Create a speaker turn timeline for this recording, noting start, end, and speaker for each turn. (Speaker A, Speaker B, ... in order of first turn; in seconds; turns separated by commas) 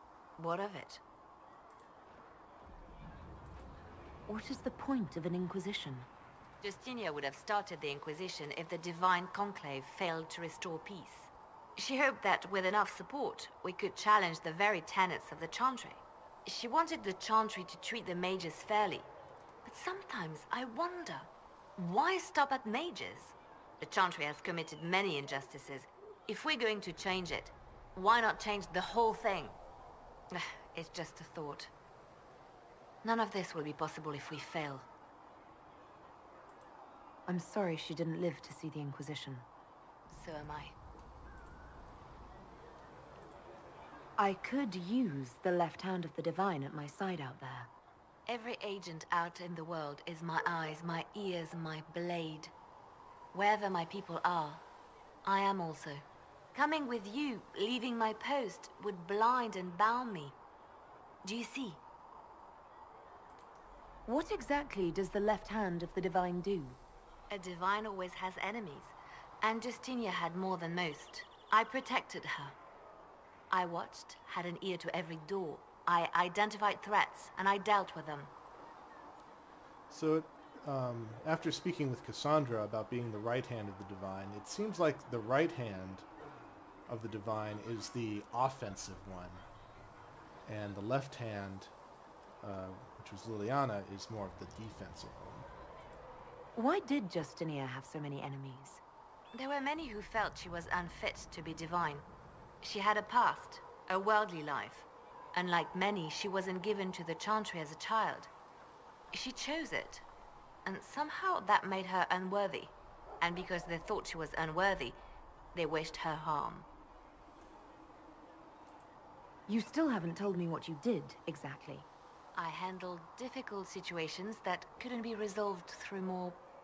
Speaker A: 0.4-1.0, Speaker B: 4.3-6.1, Speaker A: 6.6-19.1, Speaker A: 19.6-29.6, Speaker A: 30.3-31.7, Speaker A: 33.0-34.9, Speaker B: 37.3-39.5, Speaker A: 40.1-40.7, Speaker B: 44.2-47.7, Speaker A: 48.3-52.5, Speaker A: 53.3-54.6, Speaker A: 55.2-60.3, Speaker A: 61.2-61.8, Speaker B: 64.1-66.8, Speaker A: 67.3-72.6, Speaker A: 73.5-78.3, Speaker C: 79.9-86.0, Speaker C: 86.9-89.5, Speaker C: 90.5-91.7, Speaker C: 92.4-95.5, Speaker B: 96.5-98.8, Speaker A: 99.3-102.0, Speaker A: 102.6-108.3, Speaker A: 109.1-110.0, Speaker A: 110.6-115.0, Speaker A: 115.5-116.7, Speaker B: 119.5-121.9, Speaker A: 122.3-126.4